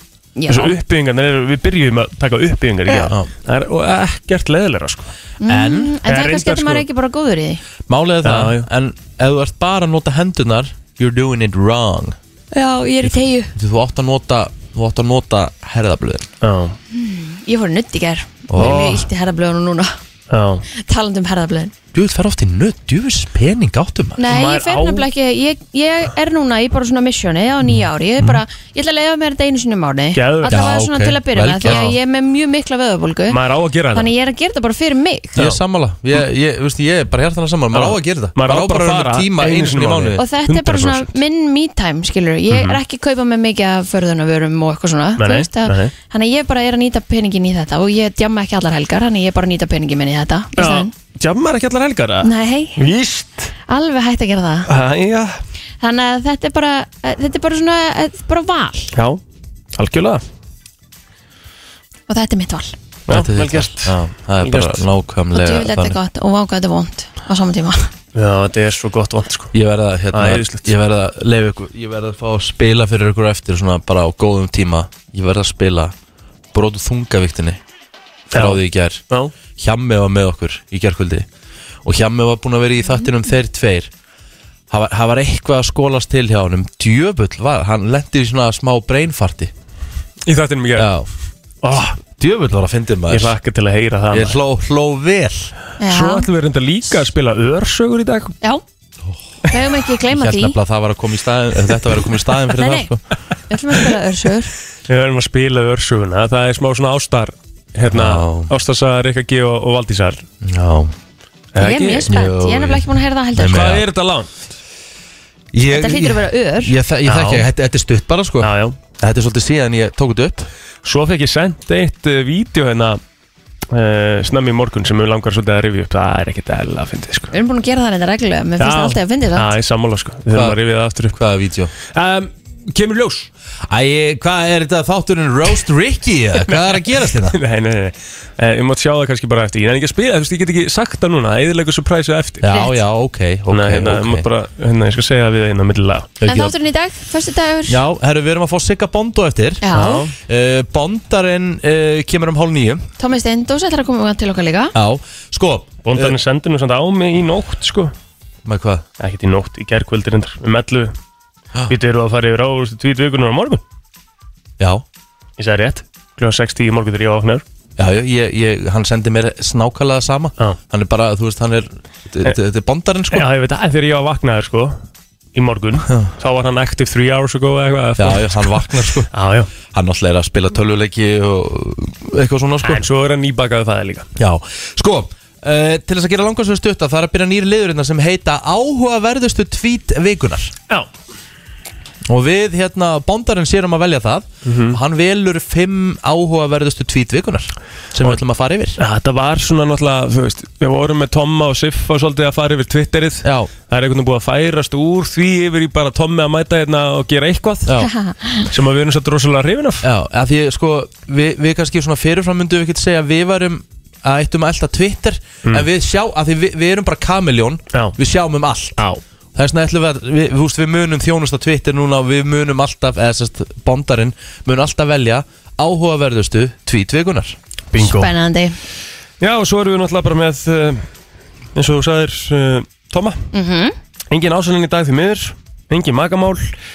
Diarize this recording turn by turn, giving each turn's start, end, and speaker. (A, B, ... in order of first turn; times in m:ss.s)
0:00.4-0:00.7 A
0:00.5-0:05.1 B
0:02.9-0:03.3 C
0:05.4-0:07.6 A
0:05.5-0:06.0 C
0:06.0-0:06.8 B
0:07.9-0:12.2 C
0:08.2-0:08.7 B
0:12.5-0:13.5 A
0:13.5-0:16.3 C
0:16.4-0:16.8 B
0:16.9-0:20.0 A
0:18.5-0:19.0 C
0:18.6-0:19.0 B
0:20.3-0:20.6 B
0:20.7-0:21.7 A
0:21.9-0:24.2 C
0:24.2-0:33.4 A
0:24.3-0:25.1 B
0:30.1-0:30.5 B
0:30.4-0:32.0 C
0:31.6-0:32.0 B
0:33.3-0:34.1 B
0:33.9-0:35.4 A
0:35.3-0:40.2 C
0:37.7-0:41.1 B
0:40.2-0:50.9 A
0:42.5-0:42.8 B
0:45.2-0:45.9 B
0:50.6-0:53.5 B
0:52.2-0:52.8 A
0:53.7-0:54.7 A
0:54.7-0:55.4 B
0:55.8-0:58.9 A
0:58.9-0:59.2 B
0:59.7-1:00.2 B
1:02.1-1:02.7 A
1:03.1-1:04.9 B
1:03.1-1:06.0 C
1:05.3-1:07.9 A
1:08.1-1:09.5 B
1:09.5-1:15.9 C
1:10.1-1:10.7 B
1:16.5-1:17.6 C
1:18.3-1:19.0 C
1:18.3-1:19.3 B
1:19.6-1:21.3 C
1:21.8-1:23.9 C
1:24.7-1:29.5 C
1:30.2-1:30.9 B
1:30.7-1:31.1 C
1:31.6-1:32.0 B
1:32.2-1:33.3 C
1:33.1-1:34.4 B
1:34.1-1:35.5 C
1:35.8-1:36.3 A
1:35.9-1:38.4 B
1:39.5-1:40.6 A
1:40.1-1:43.0 C
1:42.5-1:42.9 A
1:43.5-1:44.5 A
1:44.9-1:50.2 B
1:47.8-1:48.5 C
1:50.4-1:50.9 C
1:51.5-1:52.1 B
1:51.6-1:53.7 A
1:52.1-1:53.8 C
1:53.4-1:54.4 B
1:55.5-2:00.5 C
1:55.7-1:56.7 A
1:57.0-1:57.5 B
1:58.4-1:58.8 B
2:00.8-2:03.0 B
2:03.7-2:07.3 B
2:07.3-2:09.5 A
2:08.6-2:11.2 B
2:10.3-2:10.6 C
2:11.1-2:11.7 C
2:11.9-2:13.3 B
2:13.7-2:17.4 C
2:16.4-2:22.5 B
2:22.4-2:24.3 C
2:22.5-2:22.8 A
2:23.5-2:26.1 B
2:26.2-2:26.5 C
2:26.3-2:27.8 A
2:27.7-2:32.9 C
2:29.6-2:30.0 A
2:29.7-2:30.1 B
2:33.0-2:34.7 A
2:34.7-2:36.2 C
2:35.8-2:37.9 B
2:38.4-2:38.8 C
2:39.0-2:40.9 B
2:41.7-2:43.6 B
2:44.6-2:44.8 C
2:45.4-2:47.4 B
2:47.8-2:53.3 C
2:53.1-2:54.8 B
2:55.3-2:59.5 B
2:58.0-2:59.1 C
2:59.7-3:02.8 C
3:02.6-3:04.1 B
3:04.2-3:10.5 C
3:12.0-3:18.8 C
3:14.4-3:14.8 B
3:18.8-3:27.7 B
3:23.2-3:23.5 C
3:27.8-3:28.5 A
3:28.5-3:29.8 B
3:29.8-3:38.8 C
3:39.3-3:47.4 C
3:47.7-3:48.1 B
3:47.8-3:48.6 A
3:49.2-3:50.8 B
3:51.5-3:53.2 B
3:53.3-3:53.7 A
3:54.1-3:56.5 B